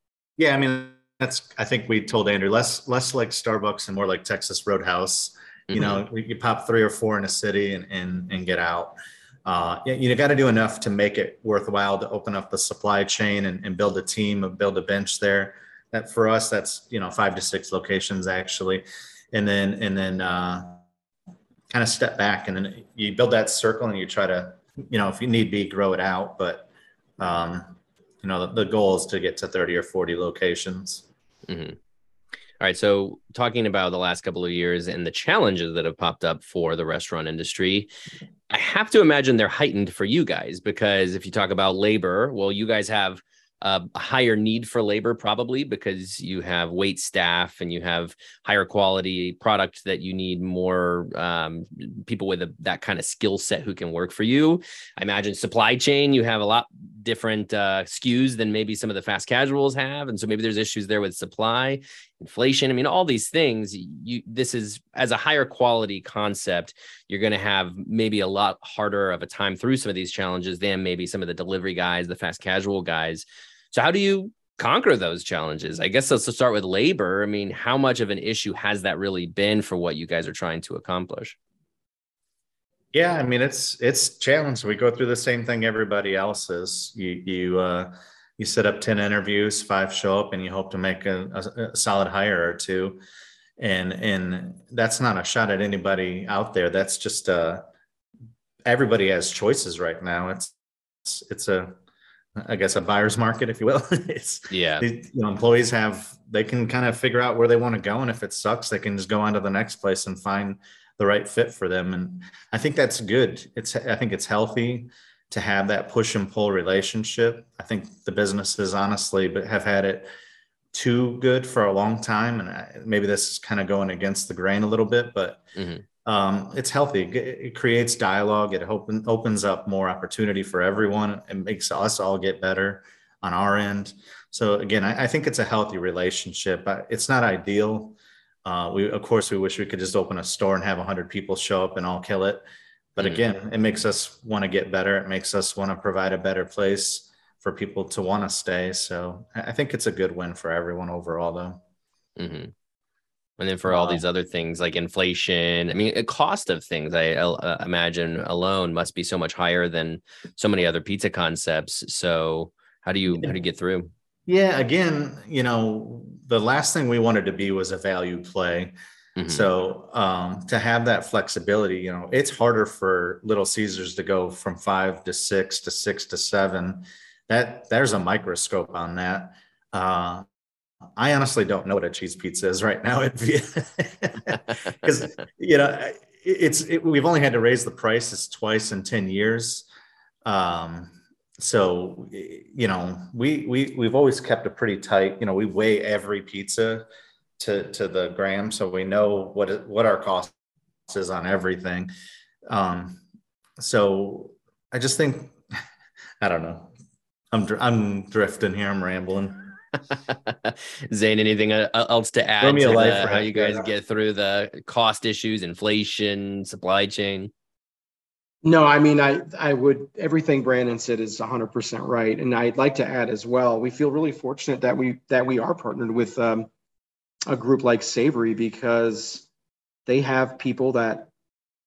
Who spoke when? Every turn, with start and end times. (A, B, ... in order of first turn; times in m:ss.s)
0:00.4-0:20.8 A
0:05.7-0:06.0 B
0:21.7-0:31.0 A
0:31.5-0:31.8 B
0:32.6-0:37.9 B
0:38.5-1:21.4 B
1:22.9-1:33.0 A
1:33.6-1:37.6 A
1:38.6-1:41.8 A
1:42.4-2:00.1 A
1:44.5-1:44.9 B
2:00.7-2:05.4 A
2:05.6-2:05.8 B
2:06.0-2:22.4 A
2:23.0-2:31.6 A
2:32.2-2:32.5 B
2:33.4-2:43.9 B
2:33.7-2:34.0 A
2:44.3-2:48.7 A
2:49.2-2:49.5 B
2:49.3-3:00.3 A
3:01.0-3:09.7 A
3:10.2-3:16.9 A
3:17.4-3:20.3 A
3:20.9-3:21.9 A
3:22.5-3:23.0 A
3:23.6-3:25.4 A
3:26.2-3:26.7 A
3:27.3-3:29.5 A
3:30.1-3:37.3 B
3:32.4-3:33.7 A
3:38.4-3:46.5 C
3:47.3-3:49.3 C
3:49.9-3:51.1 C